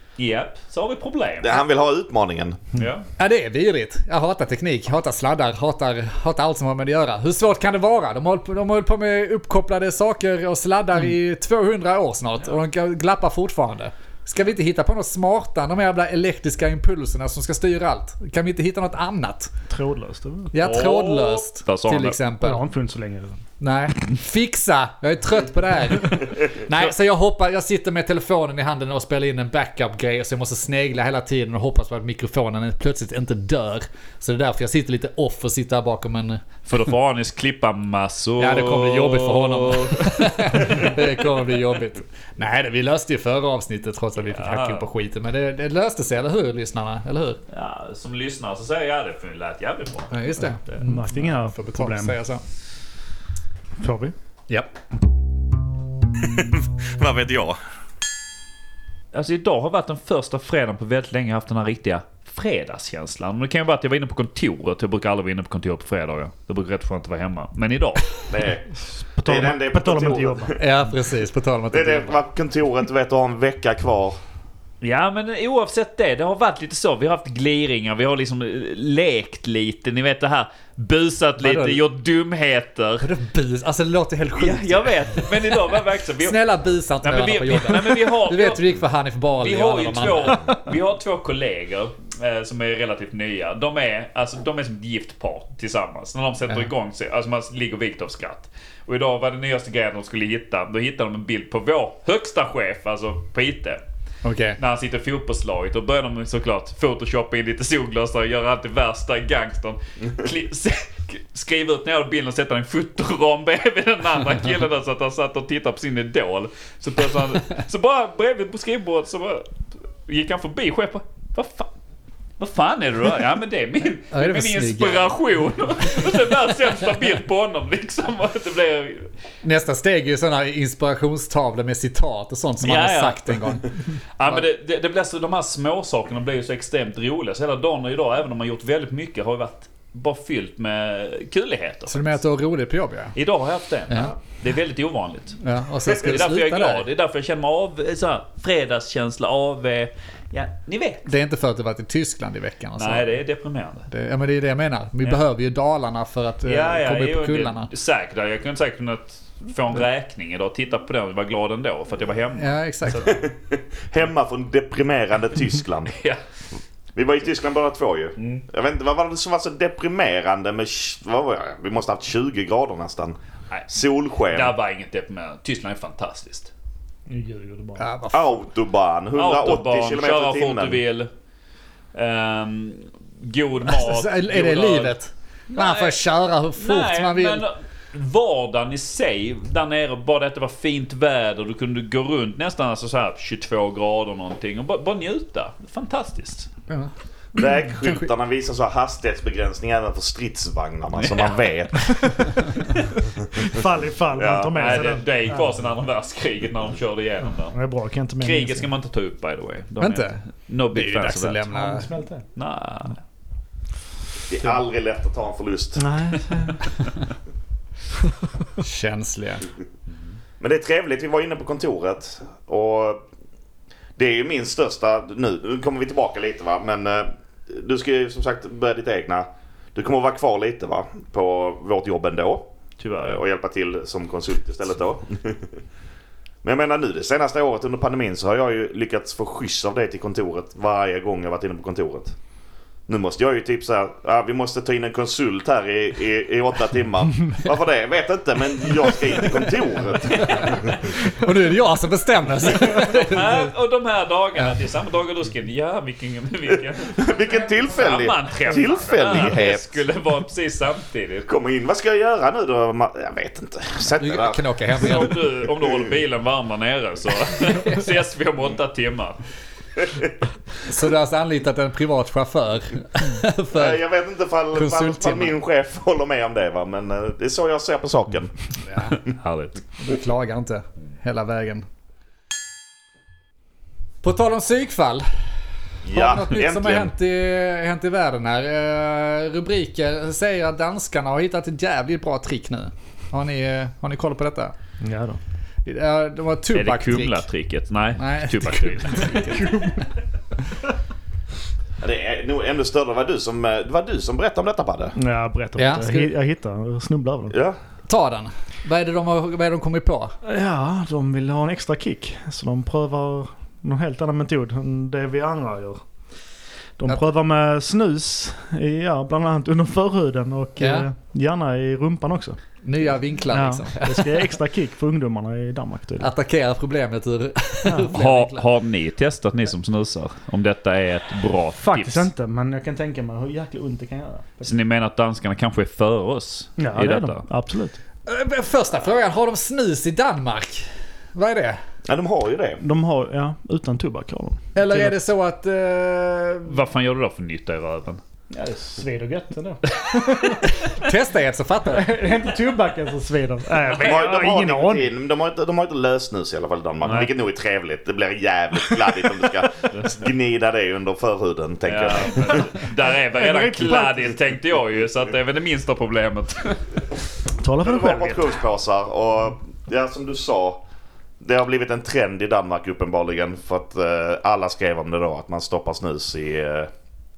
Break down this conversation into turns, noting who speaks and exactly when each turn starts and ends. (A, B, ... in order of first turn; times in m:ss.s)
0:00.2-0:01.6 A
0:01.4-0:02.6 B
0:02.8-0:03.1 A
0:03.2-0:19.5 C
0:19.7-0:20.5 D
0:20.5-0:22.6 C
0:20.6-0:22.2 A
0:22.4-0:23.4 D
0:23.6-0:36.4 C
0:36.7-0:41.0 A
0:38.4-0:47.4 C
0:44.3-0:44.9 A
0:47.5-0:50.9 A
0:50.1-0:52.4 C
0:50.8-0:52.2 D
0:53.8-0:54.1 D
0:56.3-0:57.6 B
0:59.1-1:08.1 A
1:08.3-1:10.6 B
1:08.8-1:10.6 D
1:10.6-1:12.2 C
1:11.7-1:14.2 B
1:14.8-1:23.1 A
1:21.4-1:21.8 C
1:23.0-1:30.5 C
1:24.4-1:26.4 A
1:27.0-1:28.6 A
1:29.4-1:43.8 A
1:44.2-1:44.6 C
1:44.6-2:01.7 A
2:02.4-2:09.1 A
2:04.1-2:05.1 C
2:09.4-2:14.4 C
2:12.6-2:13.6 A
2:14.2-2:22.2 A
2:21.9-2:23.2 C
2:23.2-2:31.1 A
2:23.9-2:24.1 C
2:25.4-2:26.9 C
2:31.1-2:33.1 C
2:32.8-2:33.9 A
2:33.9-2:37.7 C
2:36.5-2:43.2 A
2:42.4-2:43.2 C
2:43.0-2:46.0 B
2:45.9-2:46.2 A
2:47.0-2:53.2 B
2:48.2-2:48.4 A
2:53.7-2:54.5 B
2:54.3-2:56.5 A
2:57.1-2:57.9 D
2:57.8-2:58.4 C
2:58.1-3:00.8 B
2:59.2-3:01.1 A
3:01.9-3:05.0 A
3:03.7-3:07.4 C
3:05.5-3:06.0 A
3:06.6-3:16.5 A
3:16.7-3:18.1 C
3:17.3-3:22.5 B
3:21.0-3:23.6 A
3:23.5-3:25.6 D
3:24.2-3:24.9 B
3:24.5-3:27.6 A
3:27.5-3:28.7 D
3:28.2-3:31.5 A
3:29.8-3:31.9 C
3:31.5-3:32.3 D
3:32.3-3:33.0 A
3:34.3-3:35.9 B
3:35.8-3:36.7 D
3:38.6-3:39.5 C
3:40.4-3:43.0 B
3:44.0-3:55.6 B
3:52.8-3:53.2 A
3:56.4-4:02.2 B
4:02.9-4:11.0 B
4:10.8-4:13.5 C
4:12.6-4:17.0 A
4:17.0-4:19.8 B
4:17.7-4:21.3 A
4:21.3-4:26.0 B
4:24.0-4:25.2 C
4:24.8-4:29.2 A
4:30.7-4:33.8 C
4:33.5-4:39.0 B
4:34.5-4:35.4 C
4:38.6-4:39.0 C
4:39.1-4:39.6 A
4:39.8-4:41.6 C
4:44.0-4:45.4 C
4:45.8-4:46.9 B
4:45.9-4:54.5 C
4:54.8-4:55.2 D
4:55.6-4:57.3 C
4:56.5-4:59.4 A
4:58.0-4:59.8 C
5:01.8-5:05.0 B
5:05.0-5:07.4 D
5:05.6-5:06.1 C
5:07.3-5:07.6 B
5:07.9-5:10.2 C
5:10.2-5:16.1 D
5:16.8-5:22.5 D
5:20.6-5:20.9 C
5:22.6-5:24.3 C
5:23.3-5:26.1 D
5:26.0-5:28.5 C
5:27.9-5:32.1 A
5:31.6-5:34.5 D
5:34.4-5:37.3 A
5:36.6-5:37.8 D
5:38.0-5:41.6 C
5:41.9-5:42.6 B
5:42.6-5:45.0 D
5:44.6-5:46.6 C
5:46.5-5:48.0 A
5:48.3-5:50.5 D
5:50.6-5:52.0 C
5:51.7-5:54.9 D
5:53.8-6:02.5 B
5:56.8-5:57.1 A
6:01.7-6:07.0 A
6:03.2-6:04.2 D
6:07.4-6:08.4 D
6:07.6-6:10.6 B
6:11.2-6:16.7 B